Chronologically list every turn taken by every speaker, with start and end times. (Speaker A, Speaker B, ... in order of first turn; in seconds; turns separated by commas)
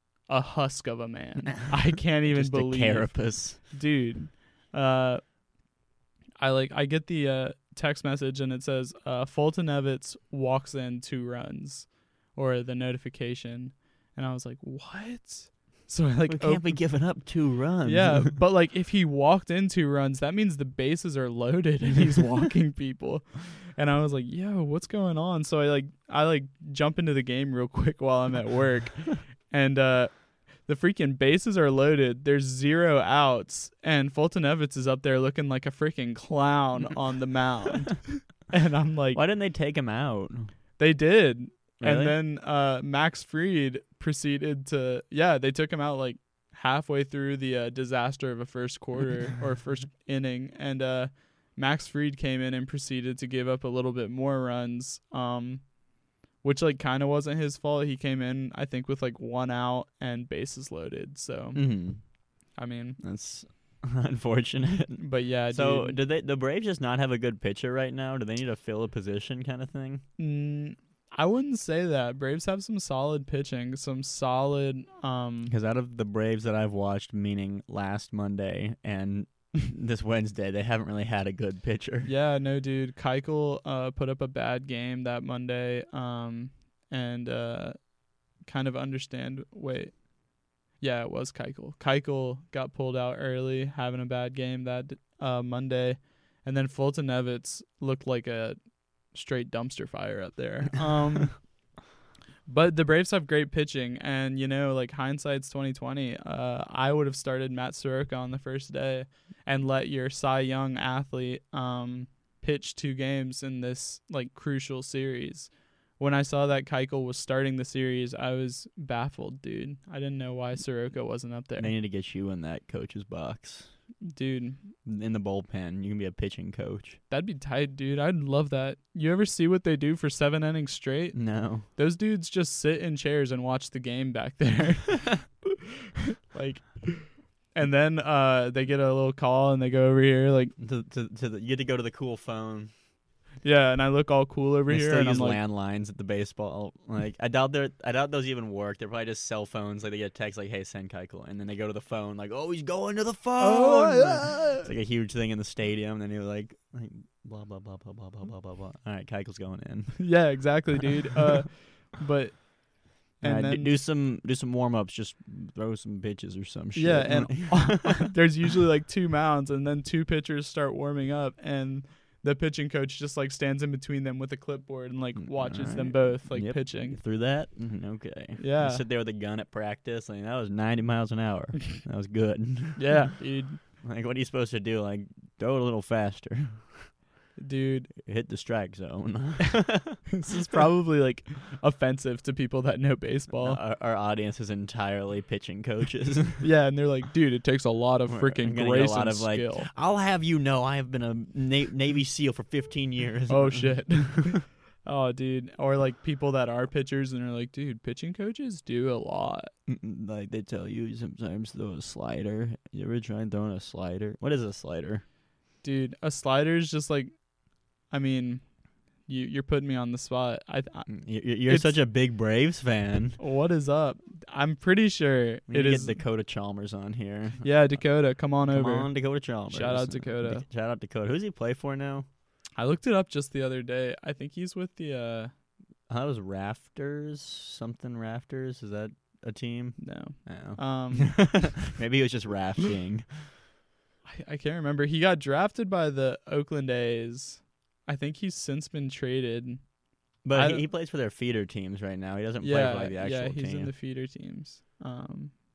Speaker A: 0.3-5.2, Speaker B: 2.2-3.6, Speaker A: 6.4-17.1, Speaker B: 16.3-18.4, Speaker A: 17.8-39.2, Speaker B: 39.1-40.5, Speaker A: 40.8-55.8, Speaker B: 41.8-42.2, Speaker A: 56.4-61.7, Speaker B: 61.5-62.0, Speaker A: 62.6-63.0, Speaker B: 63.0-70.0, Speaker A: 65.0-66.0, Speaker A: 70.2-75.5, Speaker B: 75.5-82.1, Speaker A: 82.0-101.6, Speaker A: 102.5-121.7, Speaker B: 121.6-123.7, Speaker A: 124.0-124.7, Speaker B: 124.8-127.0, Speaker A: 127.1-135.5, Speaker B: 131.1-131.7, Speaker A: 136.3-140.5, Speaker B: 140.6-142.7, Speaker A: 143.4-145.4, Speaker B: 144.7-160.6, Speaker A: 153.4-154.7, Speaker A: 160.0-163.7, Speaker B: 163.2-168.2, Speaker A: 166.8-177.0, Speaker B: 175.2-183.1, Speaker A: 178.4-178.8, Speaker A: 182.8-183.6, Speaker B: 183.8-187.0, Speaker A: 187.4-187.9, Speaker B: 188.0-190.1, Speaker A: 190.2-193.6, Speaker B: 193.4-196.4, Speaker A: 196.4-199.7, Speaker B: 198.1-204.4, Speaker A: 203.3-209.5, Speaker B: 209.7-215.0, Speaker A: 215.6-217.2, Speaker A: 217.9-221.8, Speaker B: 220.9-223.2, Speaker A: 223.2-226.0, Speaker B: 225.5-227.8, Speaker A: 227.4-230.4, Speaker B: 228.5-232.1, Speaker A: 232.6-235.3, Speaker B: 235.9-243.3, Speaker A: 239.8-241.7, Speaker A: 244.1-249.7, Speaker B: 250.2-253.7, Speaker A: 250.3-250.7, Speaker A: 252.4-255.3